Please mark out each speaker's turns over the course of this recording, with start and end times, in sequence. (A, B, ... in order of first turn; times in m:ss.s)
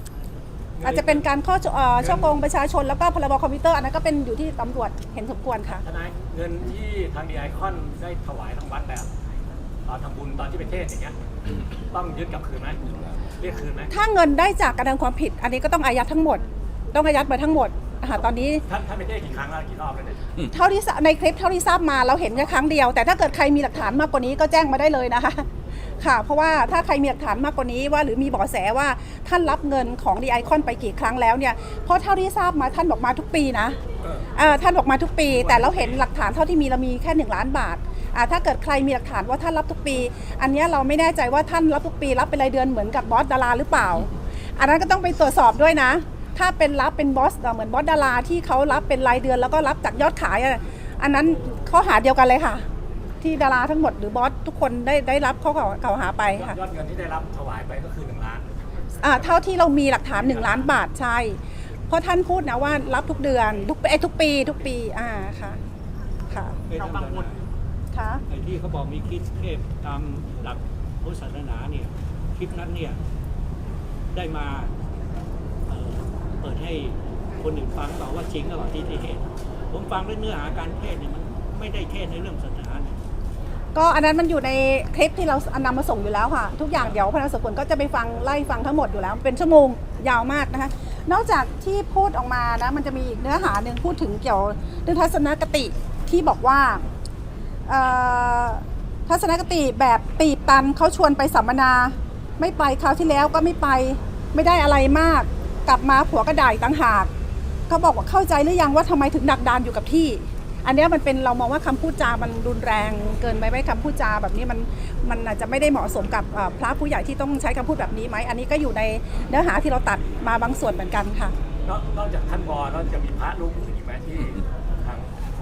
0:00.8-0:01.2 A
0:00.8-0:05.8 B
0:02.0-0:02.3 A
0:05.8-0:09.1 A
0:09.9-0:11.2 A
0:11.9-0:12.8 A
0:13.4-0:13.9 A
0:13.9-0:16.4 B
0:16.9-0:18.6 B
0:18.7-0:20.4 A
0:20.5-0:25.5 B
0:26.0-0:33.8 B
0:34.4-0:52.6 B
0:35.3-0:36.0 A
0:53.2-0:56.6 B
0:56.4-0:58.5 A
0:59.0-1:01.4 B
1:00.1-1:00.7 A
1:01.9-1:05.6 B
1:06.3-1:06.6 B
1:06.7-1:07.4 C
1:07.9-1:08.2 B
1:08.3-1:13.0 C
1:14.1-1:14.7 C
1:15.7-1:23.0 C
1:23.8-1:36.8 B
1:37.7-1:47.1 B
1:47.7-2:01.4 B
2:01.7-2:05.1 A